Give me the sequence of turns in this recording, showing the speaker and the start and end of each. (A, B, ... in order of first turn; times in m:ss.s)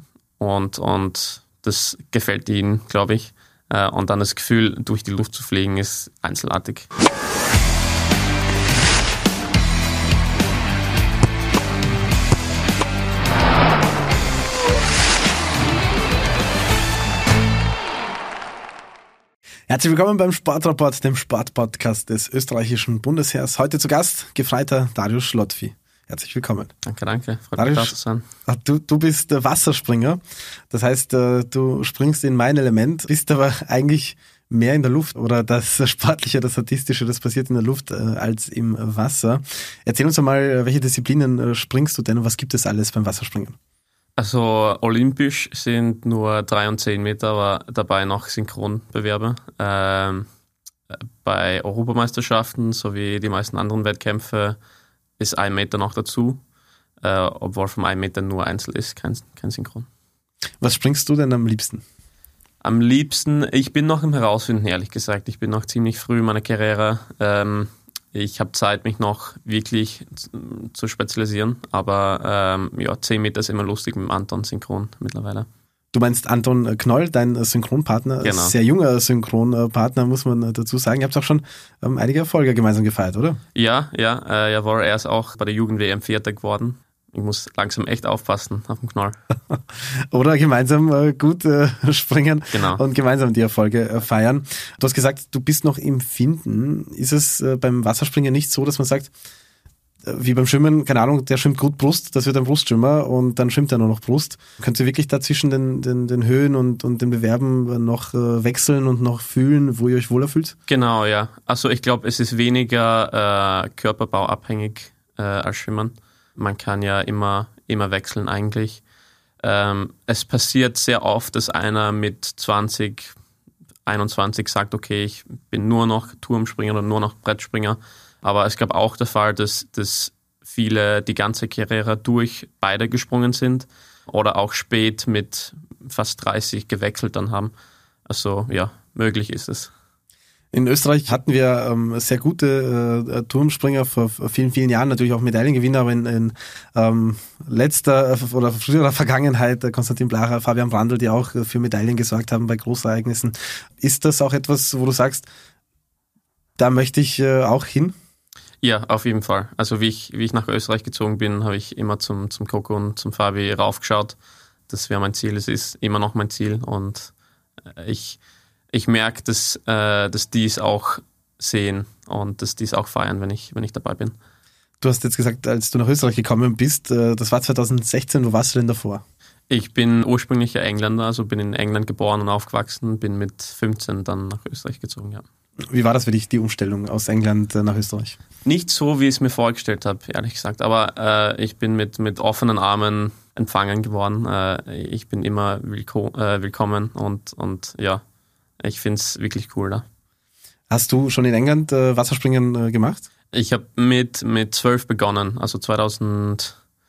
0:00.4-0:06.9 A
0:19.7-0:26.7 B
0:26.8-0:28.2 A
0:27.6-0:27.9 B
0:28.5-0:30.2 B
0:30.7-0:43.6 B
0:44.2-0:50.3 A
0:50.9-0:54.6 A
0:55.2-0:56.4 A
0:57.0-0:59.9 A
1:00.6-1:01.8 B
1:02.6-1:15.5 A
1:15.9-1:23.4 B
1:18.2-1:18.6 A
1:23.6-1:29.2 A
1:29.5-1:39.1 B
1:32.5-1:32.8 A
1:40.0-1:50.6 B
1:50.7-1:58.8 A
1:59.4-2:03.2 A
2:03.9-2:17.5 A
2:18.1-2:19.7 A
2:20.5-2:35.3 B
2:36.6-2:37.9 B
2:38.6-2:44.2 A
2:44.7-2:47.1 A
2:47.8-2:48.2 A
2:48.7-2:54.2 A
2:54.8-2:59.0 B
2:59.5-3:05.2 A
3:05.7-3:08.2 B
3:08.4-3:18.0 A
3:18.6-3:19.8 A
3:20.7-3:23.1 B
3:23.3-3:26.6 A